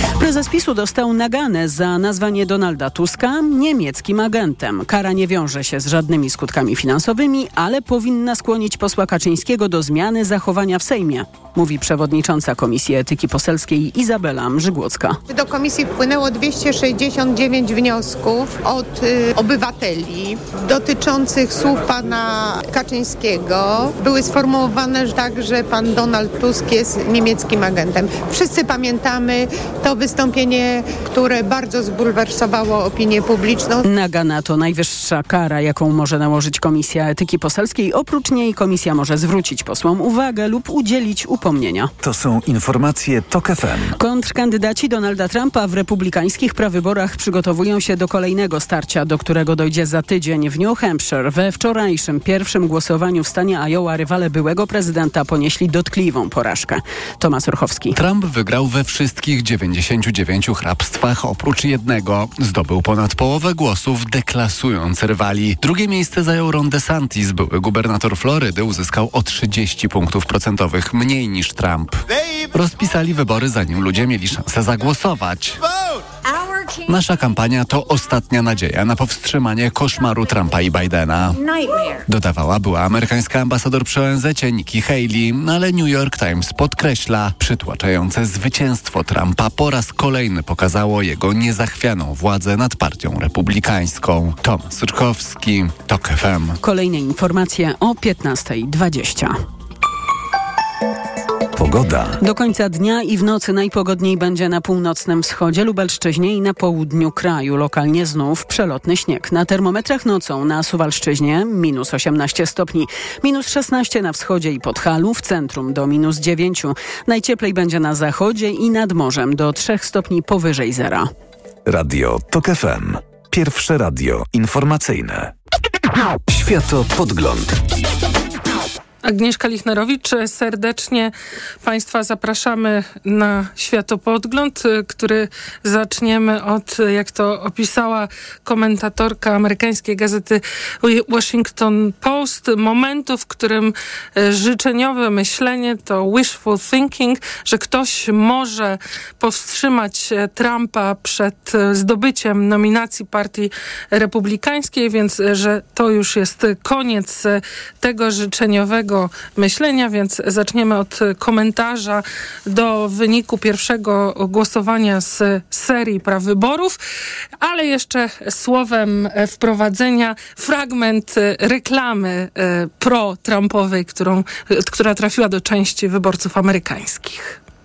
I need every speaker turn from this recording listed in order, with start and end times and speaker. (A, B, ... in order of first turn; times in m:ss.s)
0:00.2-0:15.2 A
0:15.3-0:33.8 B
0:33.8-0:41.9 A
0:42.0-0:44.0 C
0:44.0-0:58.0 A
0:57.9-1:15.6 D
1:16.8-1:21.4 D
1:22.0-1:36.6 D
1:36.6-1:39.4 A
1:41.5-1:42.2 C
1:42.2-2:01.1 A
2:01.6-2:05.3 C
2:06.3-2:07.6 C
2:09.0-2:11.1 E
2:11.6-2:46.8 E
2:47.4-2:57.4 E